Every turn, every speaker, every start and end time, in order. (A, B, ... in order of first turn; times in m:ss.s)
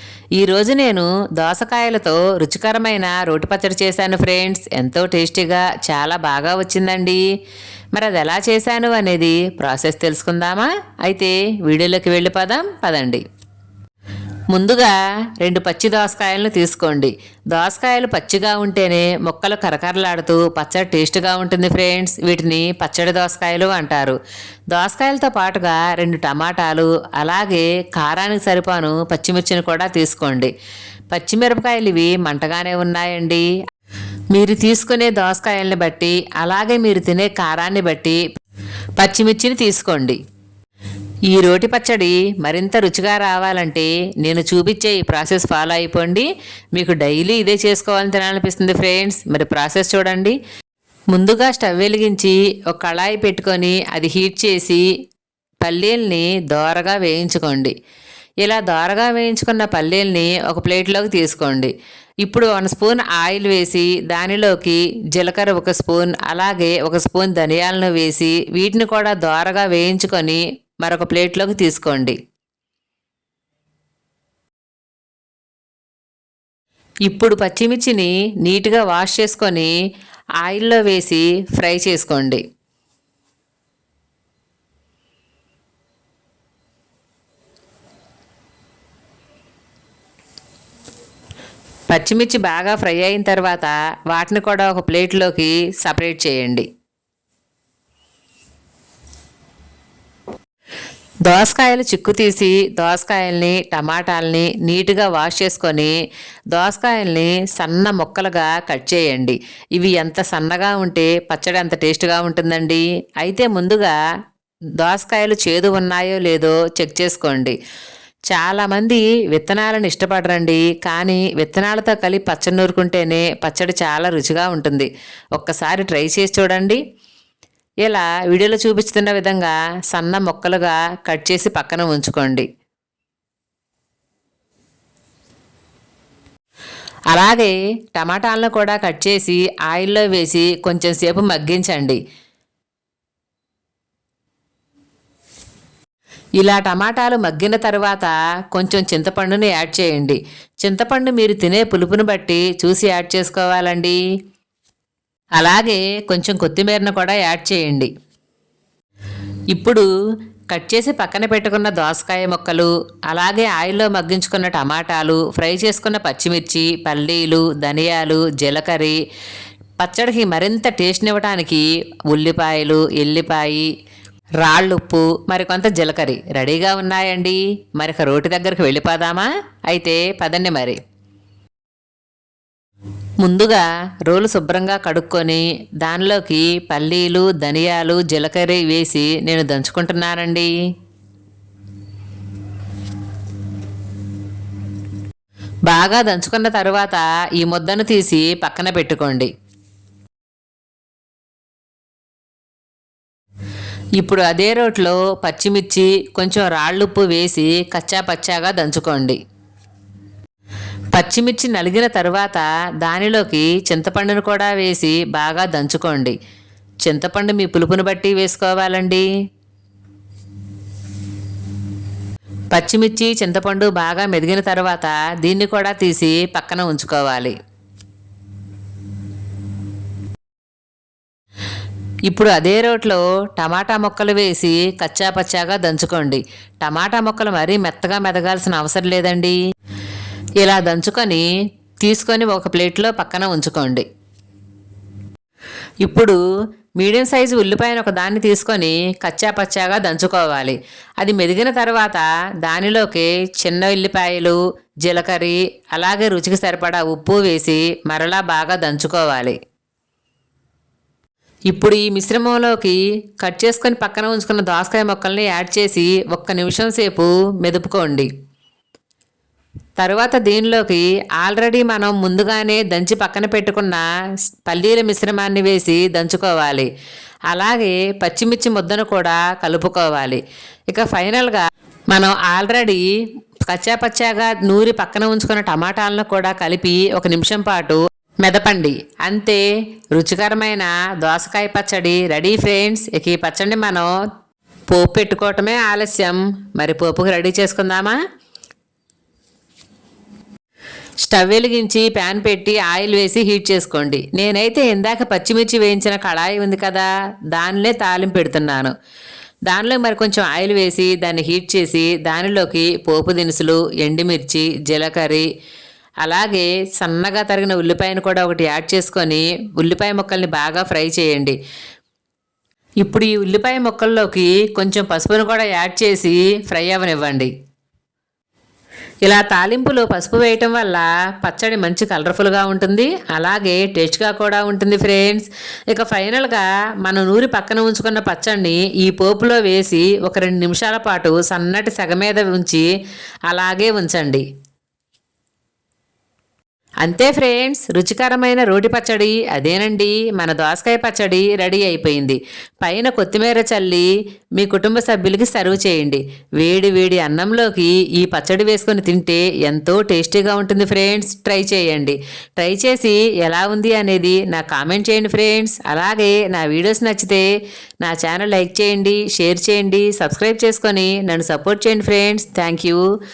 0:00.4-0:07.2 A
0:07.9-0:13.2 A
0:14.5-0:24.2 A
0:24.7-0:30.5 A
0:31.1-0:33.5 A
0:34.3-0:38.2 A
0:39.0-0:40.2 A
0:41.3-0:50.4 A
0:51.1-0:54.9 A
0:55.6-0:57.7 A
0:58.4-1:01.7 A
1:02.2-1:12.2 A
1:17.1-1:19.7 A
1:20.4-1:22.4 A
1:31.9-1:36.6 A
1:41.2-1:46.0 A
1:46.5-1:54.0 A
1:54.8-1:57.6 A
1:58.3-2:06.8 A
2:07.8-2:12.5 A
2:17.1-2:22.0 A
2:26.4-2:34.0 A
2:35.4-2:37.9 A
2:39.5-2:39.9 A
2:40.5-2:49.0 A
2:49.8-2:53.7 A
2:54.4-3:00.8 A
3:03.2-3:10.5 A
3:15.7-3:19.3 A
3:24.0-3:29.2 A
3:30.9-3:36.2 A
3:36.8-3:39.1 A
3:42.5-3:47.3 A
3:52.1-3:59.4 A
4:00.4-4:01.3 A
4:01.8-4:03.8 A
4:05.8-4:06.2 A
4:06.8-4:19.4 A
4:21.5-4:28.1 A
4:29.8-4:33.8 A
4:34.4-4:36.7 A
4:37.3-4:42.9 A
4:43.5-4:49.4 A
4:49.9-4:53.9 A
4:54.7-4:58.0 A
5:01.0-5:08.7 A
5:09.5-5:15.3 A
5:16.0-5:21.4 A
5:22.8-5:27.3 A
5:29.0-5:42.7 A
5:43.3-5:44.2 A
5:46.8-6:07.2 A
6:07.8-6:12.9 A